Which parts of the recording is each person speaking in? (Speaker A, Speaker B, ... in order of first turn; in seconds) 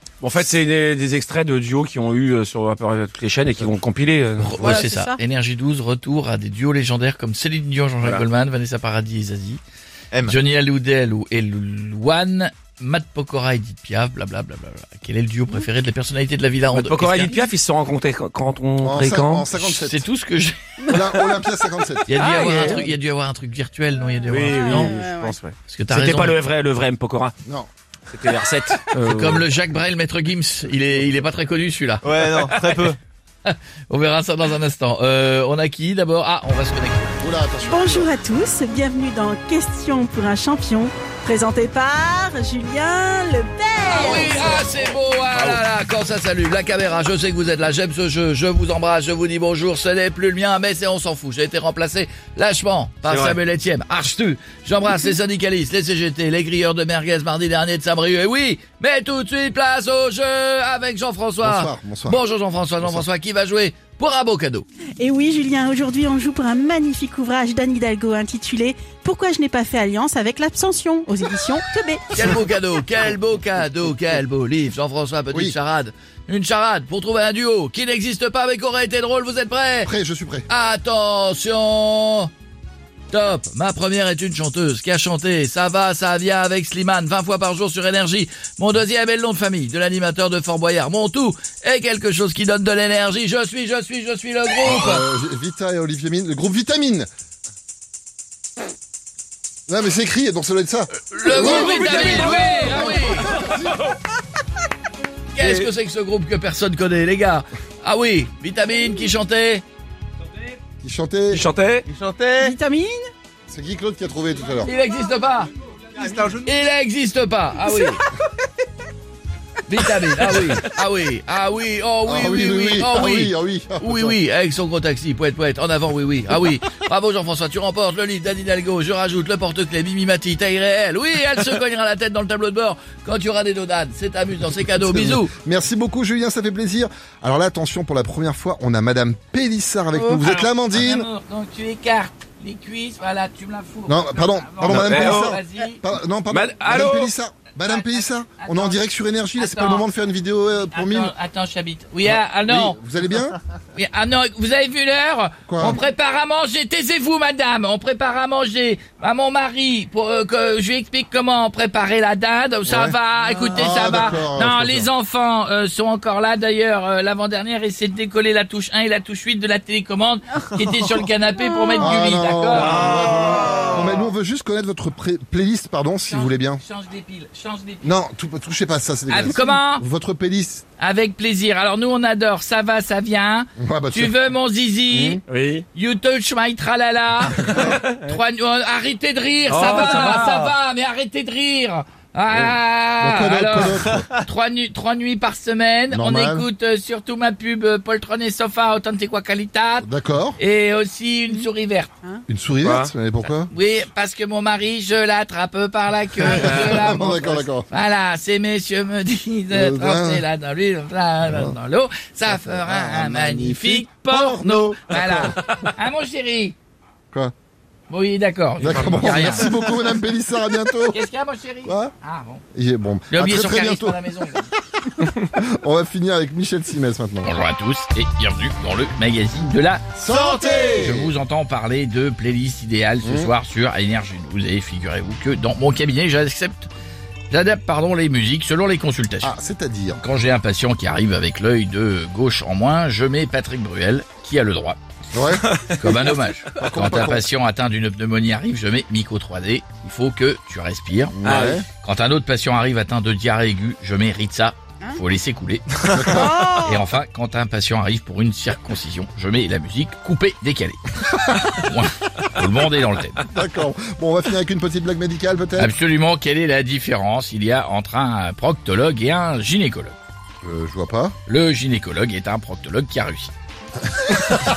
Speaker A: 0.2-4.8, 16.7-19.5, 22.2-22.8, 24.3-27.4, 28.1-29.5, 45.3-45.6, 53.0-53.4, 111.3-111.9, 144.7-145.4, 146.3-147.1, 185.3-185.7, 187.6-188.0, 189.5-190.5, 202.6-202.9, 218.8-219.2, 251.2-251.6
Speaker B: 4.4-9.6, 10.2-17.4, 19.6-20.6, 22.1-25.0, 25.7-26.4, 29.0-32.9, 33.5-37.2, 43.9-64.7, 72.1-79.9, 80.5-82.3, 83.1-95.0, 101.1-103.3, 105.3-109.6, 114.6-115.5, 116.3-118.0, 119.7-135.3, 140.0-145.8, 147.6-148.8, 149.3-149.9, 150.7-152.8, 153.7-172.8, 176.1-178.0, 179.1-179.8, 180.8-185.2, 185.7-201.9, 203.3-216.6, 217.9-219.6, 220.9-222.4, 223.1-224.5, 227.2-236.7, 237.3-239.3, 240.0-244.8, 245.7-251.2, 251.8-260.8, 261.4-263.2, 265.6-270.0, 271.3-273.3
Speaker C: 4.6-5.2, 22.2-22.7, 24.5-25.4, 37.7-44.6, 65.0-72.1, 112.4-113.0, 256.1-256.8
Speaker D: 18.8-20.1, 20.9-22.2, 37.2-38.1, 61.4-62.2, 62.8-63.1, 79.8-80.5, 94.7-97.1, 99.7-103.8, 110.8-111.5, 113.5-114.7, 122.0-124.2, 134.6-141.1, 143.9-151.1, 152.1-153.4, 155.5-155.8, 162.7-163.0, 163.5-164.9, 171.8-176.6, 177.8-180.6, 183.6-184.2, 184.9-185.2, 192.3-194.1, 195.9-196.5, 199.8-200.4, 202.3-203.5, 206.2-207.7, 209.5-210.2, 211.2-211.6, 212.3-215.3, 218.6-221.0, 221.6-221.9, 222.5-224.0, 224.7-227.4, 230.0-231.1, 233.0-233.3, 239.2-240.0, 245.1-247.3, 251.1-251.7, 255.9-256.5, 263.2-265.7, 270.4-271.1, 274.1-274.4
Speaker E: 32.0-33.0, 111.9-112.6, 116.0-116.5